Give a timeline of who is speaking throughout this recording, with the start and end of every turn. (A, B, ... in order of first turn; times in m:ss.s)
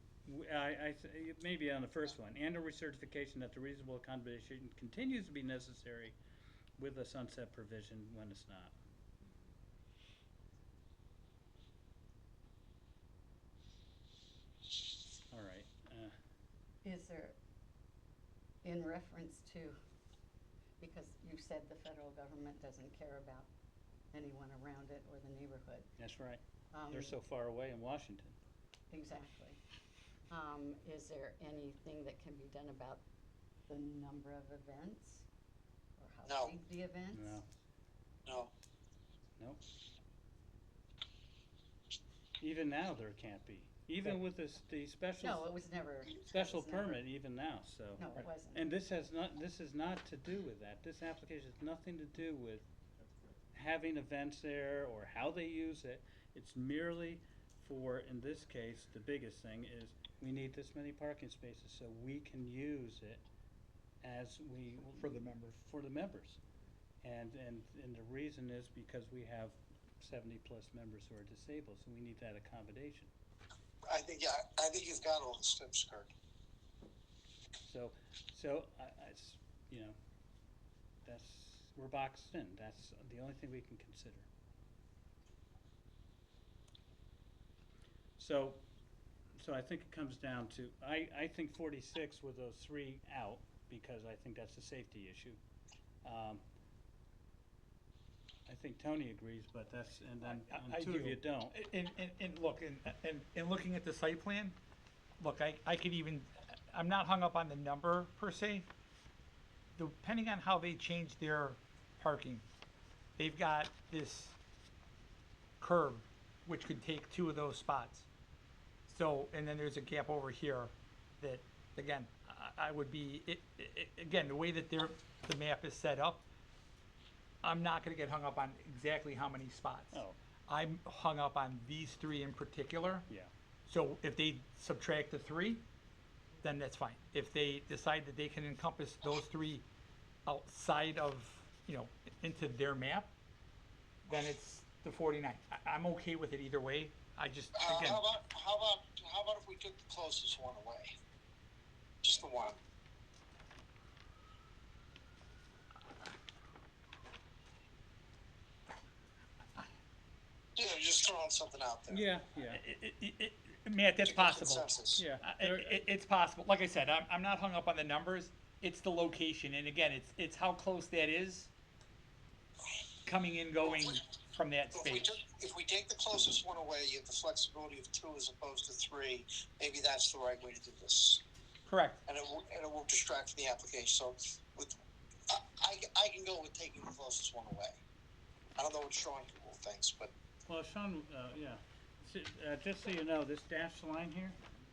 0:00.3-0:06.2 A
0:06.8-0:08.8 A
0:15.3-0:16.1 A
0:16.8-0:17.4 B
0:18.6-0:19.8 B
0:20.8-0:23.5 B
0:24.1-0:25.9 B
0:26.0-0:28.4 A
0:26.7-0:27.2 B
0:28.9-0:29.6 B
0:30.3-0:33.0 B
0:33.7-0:35.3 B
0:36.0-0:37.4 B
0:36.2-0:36.5 C
0:37.1-0:37.5 A
0:38.3-0:38.5 C
0:42.4-0:45.5 A
0:45.2-0:47.0 B
0:46.2-0:52.7 A
0:48.0-0:48.7 B
0:53.5-1:03.2 A
1:04.0-1:06.4 A
1:04.9-1:05.6 D
1:07.0-1:13.1 A
1:13.9-1:16.1 C
1:17.6-1:20.0 A
1:21.0-1:24.3 A
1:28.2-1:28.6 A
1:29.4-1:35.4 A
1:36.0-1:36.4 A
1:38.5-1:41.6 A
1:40.2-1:44.6 D
1:45.2-1:48.7 D
1:49.8-1:52.4 D
1:53.2-1:54.4 D
1:55.6-1:58.1 D
1:58.9-2:06.2 D
2:07.4-2:13.1 D
2:13.7-2:15.6 D
2:16.4-2:19.7 D
2:20.3-2:23.1 D
2:24.1-2:28.0 D
2:27.6-2:30.9 C
2:32.0-2:32.6 C
2:40.6-2:42.0 C
2:41.9-2:42.6 A
2:42.5-2:44.7 D
2:44.0-2:45.0 C
2:45.0-2:45.8 A
2:45.2-2:51.5 D
2:53.0-2:55.2 D
2:54.8-3:01.2 C
3:01.7-3:02.0 D
3:02.1-3:04.7 C
3:05.3-3:07.8 C
3:08.6-3:10.1 C
3:10.5-3:14.4 A